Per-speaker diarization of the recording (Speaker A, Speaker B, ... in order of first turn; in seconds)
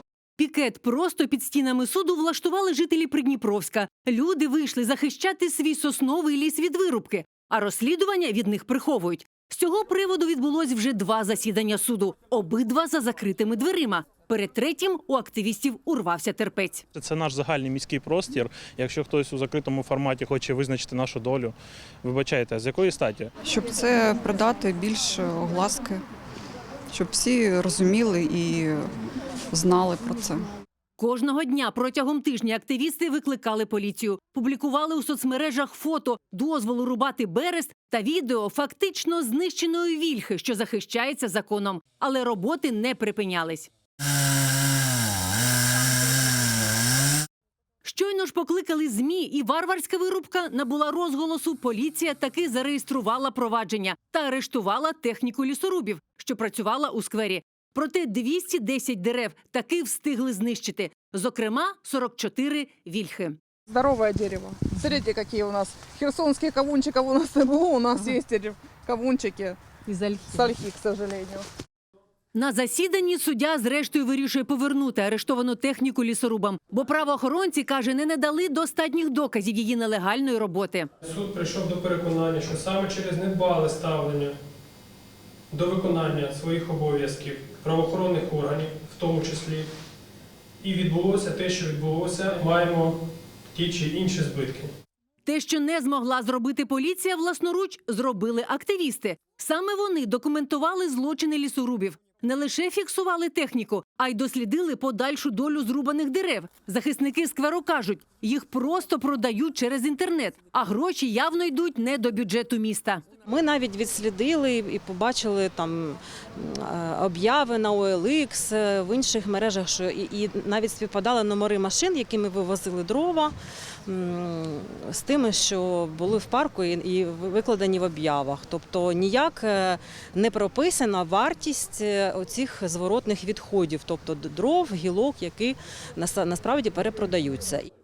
Speaker A: 0.4-16.8, 31.0-43.7, 47.8-63.4, 72.3-80.9, 95.2-113.0
Speaker B: 16.9-23.3
Speaker C: 23.4-26.0, 26.9-28.9, 29.5-30.5
Speaker D: 63.7-71.5
Speaker E: 81.0-84.3, 85.5-89.7, 90.6-93.0, 93.5-94.7
Speaker F: 113.2-123.3, 123.8-137.7